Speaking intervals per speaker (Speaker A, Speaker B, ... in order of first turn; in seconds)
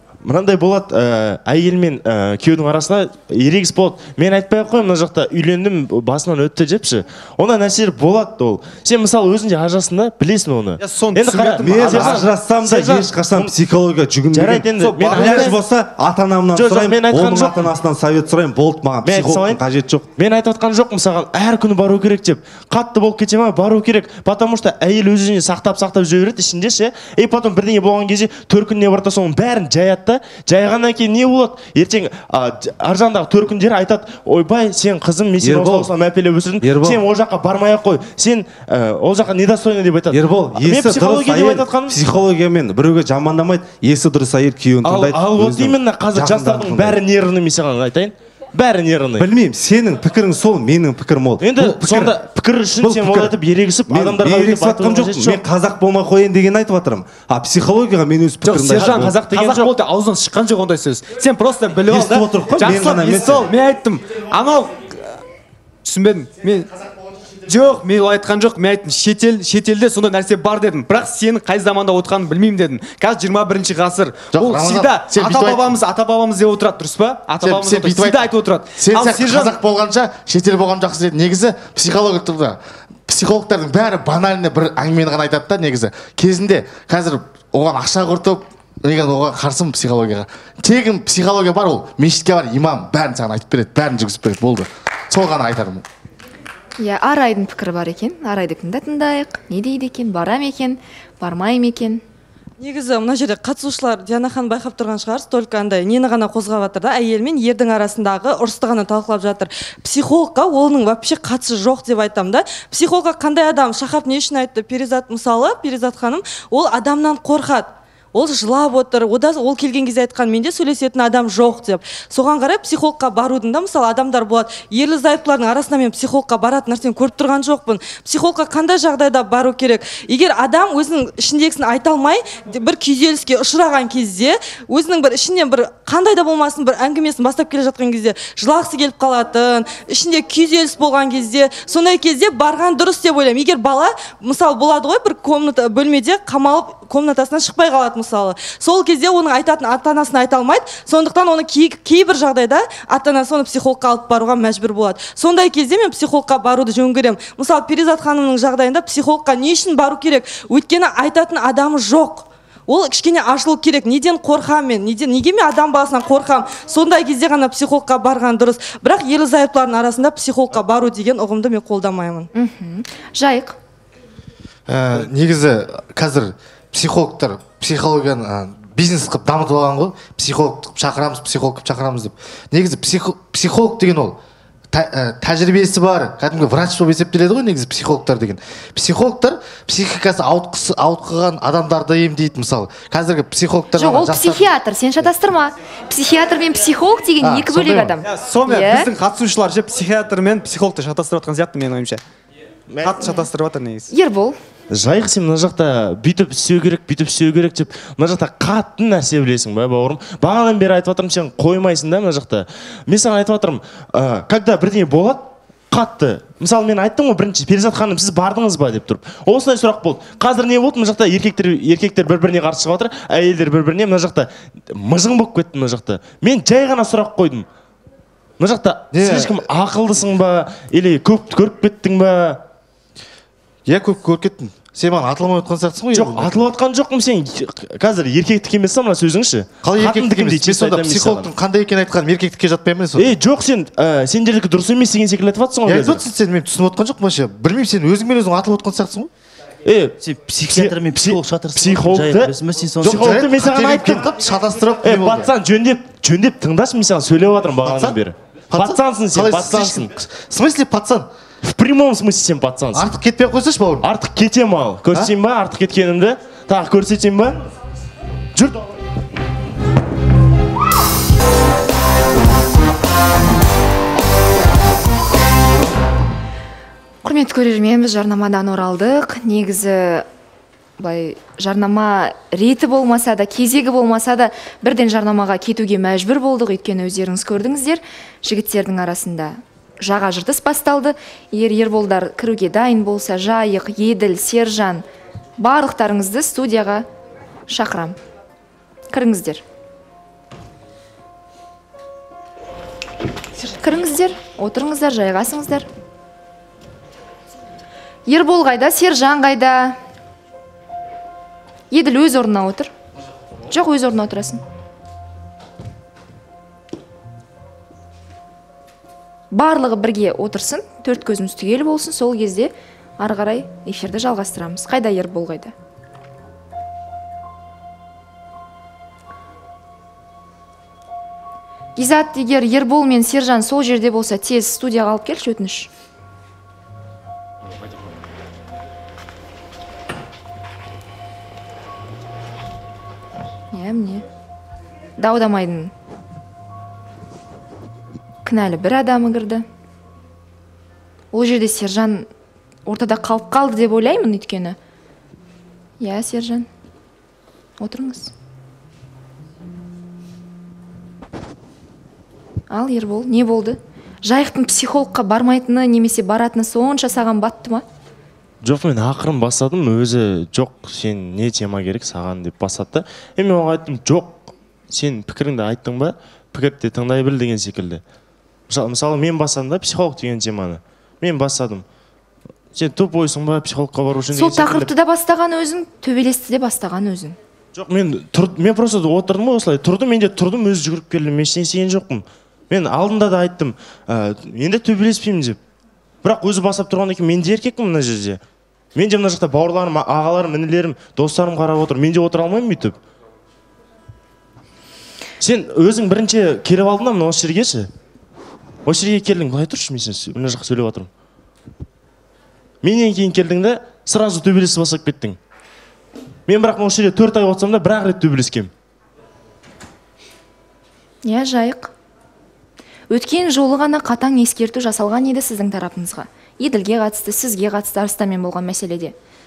Speaker A: 0.2-13.5, 14.3-15.6, 16.6-17.7, 19.0-42.0, 44.8-49.3, 51.4-55.4, 58.8-59.8, 202.7-203.0, 204.7-227.5, 228.4-232.4, 235.9-241.3, 243.0-246.0, 249.7-250.0, 250.5-254.1, 254.8-259.9, 261.4-262.9, 263.8-267.4, 268.4-268.7, 368.4-377.8, 378.5-381.6, 382.5-384.7, 387.6-395.4, 396.0-398.2, 398.8-402.8, 405.2-407.7, 408.7-410.9, 412.6-415.2, 416.3-418.5
Speaker B: 10.8-13.0, 15.0-15.5, 58.4-65.1, 65.8-66.7, 67.5-79.6, 198.0-202.0, 202.8-203.9
Speaker C: 11.6-20.1, 35.4-35.9, 36.6-37.0, 40.1-47.0, 49.2-52.2, 52.8-53.4, 53.9-59.1, 61.9-63.5
Speaker D: 74.3-75.7, 77.4-95.8, 174.7-184.2, 184.7-194.5, 197.2-198.0, 228.9-229.4, 233.7-236.3, 239.6-243.1, 245.7-249.1, 252.8-255.3, 257.6-258.0, 258.5-261.1, 262.7-263.9
Speaker E: 96.8-102.0, 172.3-173.6, 193.8-198.9, 203.9-204.4, 277.0-280.1, 280.8-294.8, 295.4-296.9, 297.5-298.0, 298.9-299.4, 303.6-305.7, 308.1-309.8, 311.7-312.7, 313.5-314.4, 319.3-325.5, 331.8-335.7, 343.5-344.1, 345.0-345.7, 348.2-349.4, 351.1-352.1, 352.7-354.6, 355.8-356.5, 357.6-358.1, 362.5-367.6, 384.1-387.2, 421.0-421.7, 422.9-428.9
Speaker F: 102.6-172.3
Speaker G: 250.0-253.2